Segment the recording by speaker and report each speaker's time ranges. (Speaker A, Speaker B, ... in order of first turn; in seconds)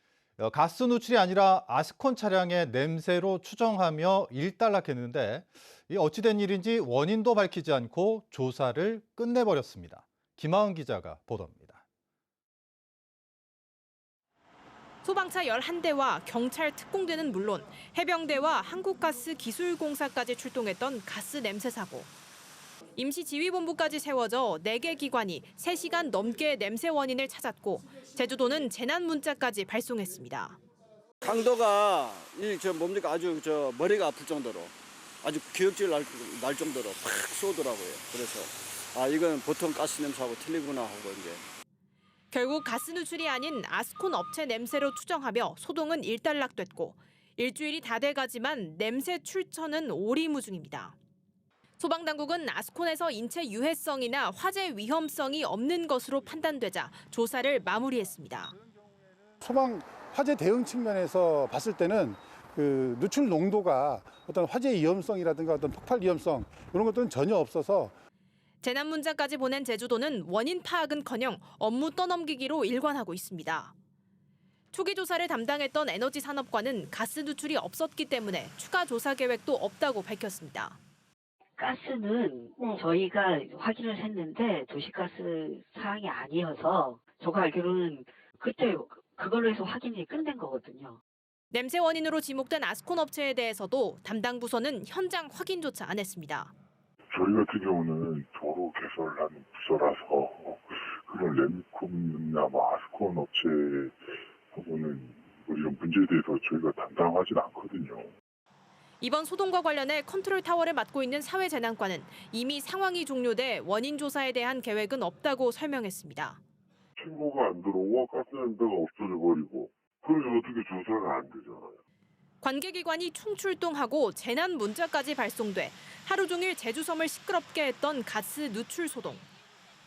Speaker A: 0.4-11.8
Speaker B: 15.0-22.1, 23.0-30.6, 42.3-50.9, 51.8-58.5, 68.6-73.7, 74.7-80.8, 91.5-96.5, 109.0-116.4, 122.4-129.3
Speaker C: 31.2-41.4
Speaker D: 59.4-67.9
Speaker E: 81.6-91.0
Speaker F: 97.1-108.1, 117.0-121.8